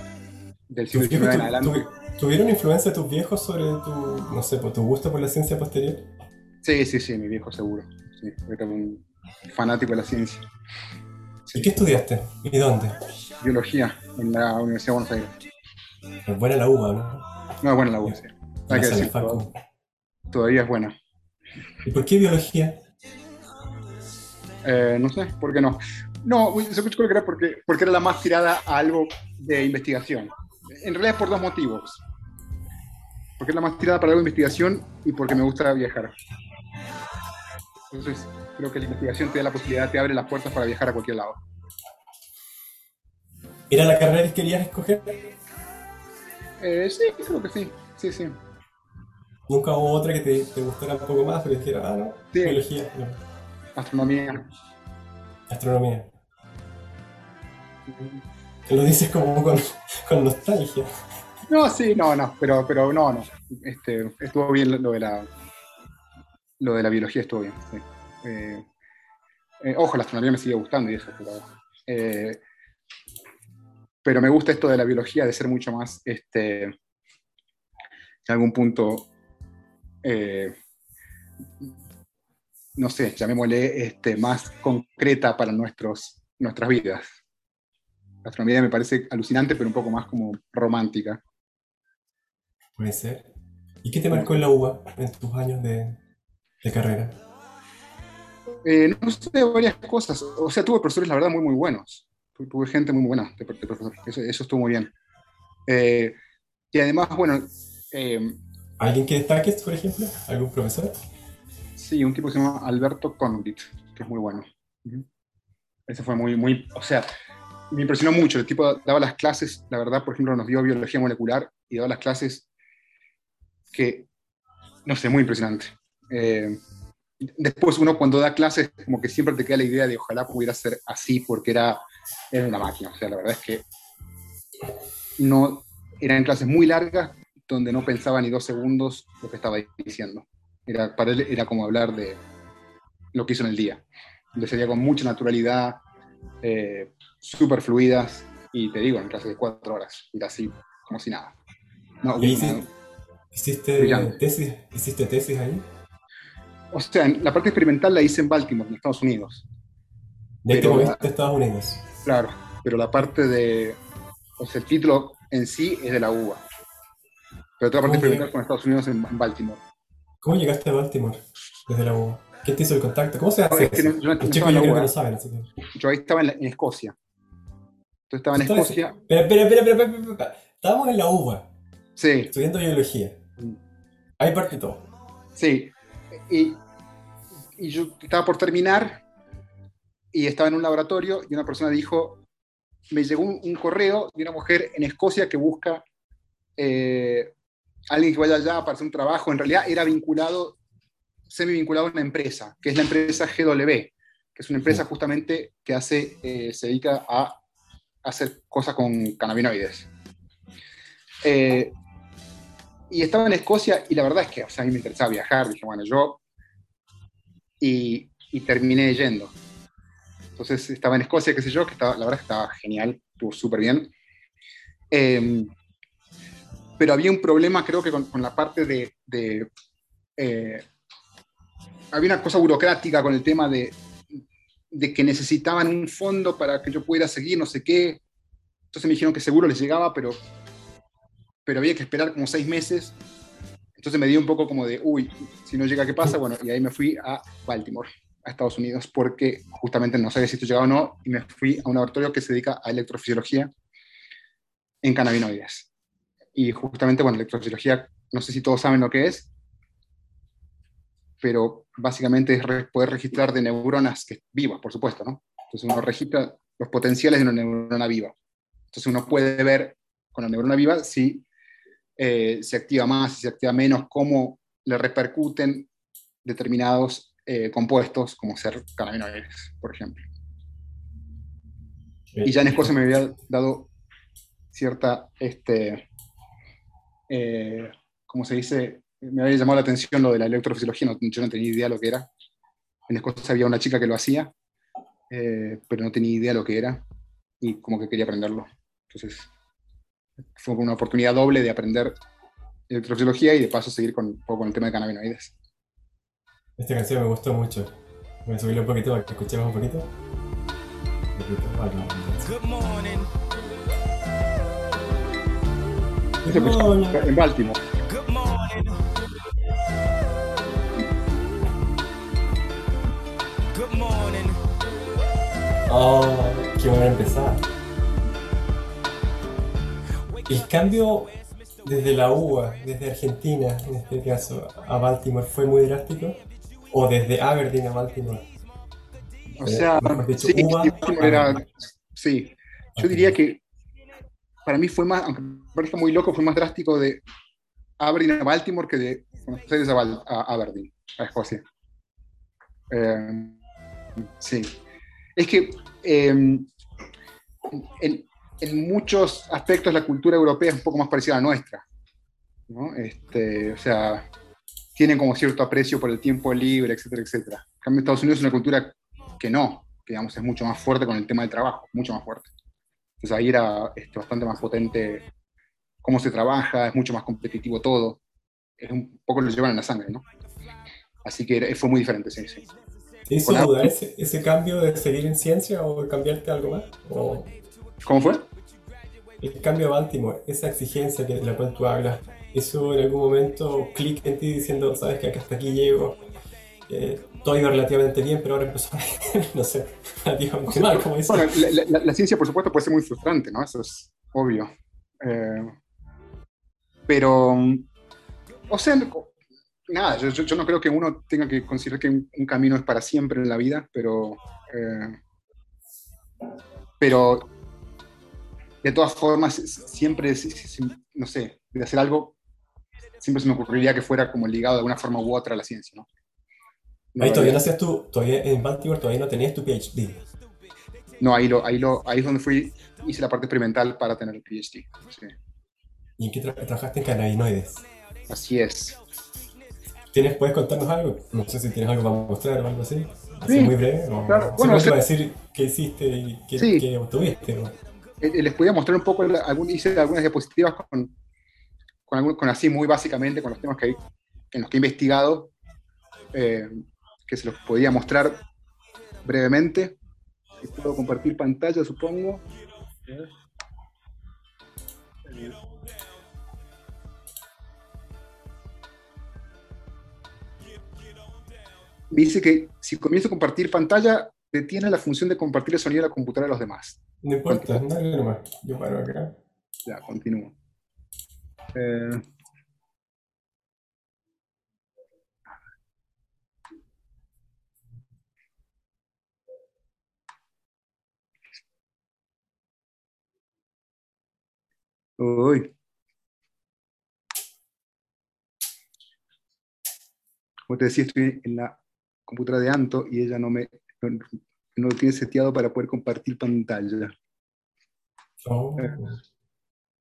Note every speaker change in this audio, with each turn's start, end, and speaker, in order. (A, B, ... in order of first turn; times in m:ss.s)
0:00.7-0:01.9 A
0:00.9-0:06.1 B
0:06.6-0:10.4 A
0:11.5-0:12.0 A
0:11.5-0:13.0 B
0:13.4-0:15.3 A
0:16.2-0:17.3 B
0:17.6-0:19.4 A
0:18.7-0:19.5 B
0:20.3-0:20.9 A
0:21.8-0:22.8 B
0:24.6-0:32.0 A
0:33.4-0:36.1 A
0:37.9-0:41.4 A
0:43.7-0:45.3 B
0:46.6-0:48.4 A
0:49.5-0:53.2 B
0:52.3-0:52.6 A
0:53.7-0:54.5 A
0:55.5-0:56.1 B
0:57.9-0:58.2 A
0:58.6-1:00.9 B
1:01.5-1:05.3 A
1:06.6-1:08.7 A
1:09.6-1:12.4 A
1:14.0-1:16.7 A
1:18.2-1:19.1 A
1:20.0-1:20.6 A
1:22.8-1:27.0 A
1:28.2-1:31.2 A
1:32.8-1:33.3 B
1:33.8-1:36.0 B
1:36.6-1:37.2 B
1:38.6-1:44.9 A
1:45.7-1:46.2 A
1:46.7-1:48.4 A
1:48.8-1:51.0 B
1:51.8-1:55.0 A
1:55.9-1:57.1 A
1:57.7-2:02.5 A
2:03.7-2:04.1 A
2:04.8-2:06.6 A
2:07.2-2:13.6 A
2:15.2-2:22.2 A
2:23.1-2:23.8 A
2:24.4-2:25.8 A
2:26.4-2:31.3 A
2:32.0-2:32.7 A
2:32.2-2:32.6 B
2:33.3-2:35.6 B
2:33.8-2:34.2 A
2:36.7-2:39.4 A
2:40.4-2:41.8 B
2:40.5-2:41.1 A
2:42.0-2:43.8 A
2:44.4-2:46.4 A
2:47.6-2:49.6 A
2:47.8-2:48.3 B
2:50.2-2:55.5 B
2:53.5-2:54.9 A
2:55.7-2:57.0 A
2:58.1-2:59.0 A
2:58.3-3:01.5 B
3:02.0-3:02.3 A
3:02.3-3:03.2 B
3:04.2-3:04.9 B
3:05.4-3:06.6 A
3:07.6-3:09.0 A
3:10.1-3:12.2 A
3:12.9-3:15.8 A
3:16.6-3:17.3 A
3:17.9-3:20.6 A
3:21.3-3:27.4 A
3:28.0-3:29.9 A
3:31.2-3:31.8 A
3:32.9-3:36.2 A
3:37.6-3:39.3 A
3:40.4-3:43.9 A
3:44.9-3:45.5 A
3:46.8-3:49.5 A
3:50.2-3:50.6 A
3:51.9-3:53.8 A
3:54.7-3:58.0 A
3:58.7-4:00.2 A
4:01.4-4:03.0 A
4:03.8-4:13.5 A
4:14.8-4:15.7 A
4:16.3-4:19.3 A
4:21.2-4:28.2 A
4:28.7-4:31.2 A
4:32.0-4:35.7 A
4:36.2-4:40.0 A
4:42.1-4:42.7 B
4:42.2-4:43.7 A
4:44.5-4:45.9 A
4:47.1-4:52.1 A
4:52.9-4:54.3 A
4:55.1-4:56.8 A
4:57.4-4:59.3 A
5:00.4-5:02.0 A
5:02.7-5:05.3 A
5:06.6-5:07.7 B
5:08.2-5:09.9 B
5:11.1-5:12.5 B
5:16.2-5:17.0 B
5:16.3-5:17.6 A
5:25.7-5:27.4 B
5:30.2-5:38.3 B
5:39.3-5:43.4 A
5:39.4-5:41.4 B
5:42.8-5:43.1 B
5:44.4-5:47.0 A
5:47.8-5:51.4 A
5:52.7-5:53.4 A
5:54.2-5:54.6 A
5:55.2-5:56.5 A
5:57.5-6:01.6 A
6:02.5-6:04.1 A
6:04.7-6:12.3 A
6:13.0-6:15.0 A
6:15.8-6:18.0 A
6:18.6-6:20.0 A
6:21.0-6:22.4 A
6:23.0-6:27.3 B
6:23.2-6:23.7 A
6:27.8-6:28.3 A
6:29.2-6:36.0 B
6:36.7-6:41.5 B
6:40.5-6:45.5 A
6:46.9-6:47.7 A
6:48.5-6:49.1 A
6:49.7-6:55.0 A
6:56.8-6:57.3 A
6:58.6-7:02.2 A
7:03.0-7:05.9 A
7:06.9-7:07.4 A
7:07.0-7:10.0 B
7:11.0-7:15.1 A
7:16.0-7:17.6 B
7:18.1-7:18.8 A
7:19.9-7:27.5 B
7:23.3-7:24.8 A
7:26.4-7:26.7 A
7:28.0-7:30.9 A
7:31.9-7:33.8 A
7:34.3-7:35.3 A
7:36.1-7:38.2 A
7:39.0-7:39.8 A
7:40.4-7:42.2 A
7:42.8-7:43.1 A
7:45.1-7:45.4 A
7:51.9-7:57.7 A
7:57.0-7:59.2 B
7:59.6-8:00.3 A
8:01.5-8:02.0 A
8:15.0-8:15.5 A
8:20.5-8:26.9 A
8:28.2-8:29.0 B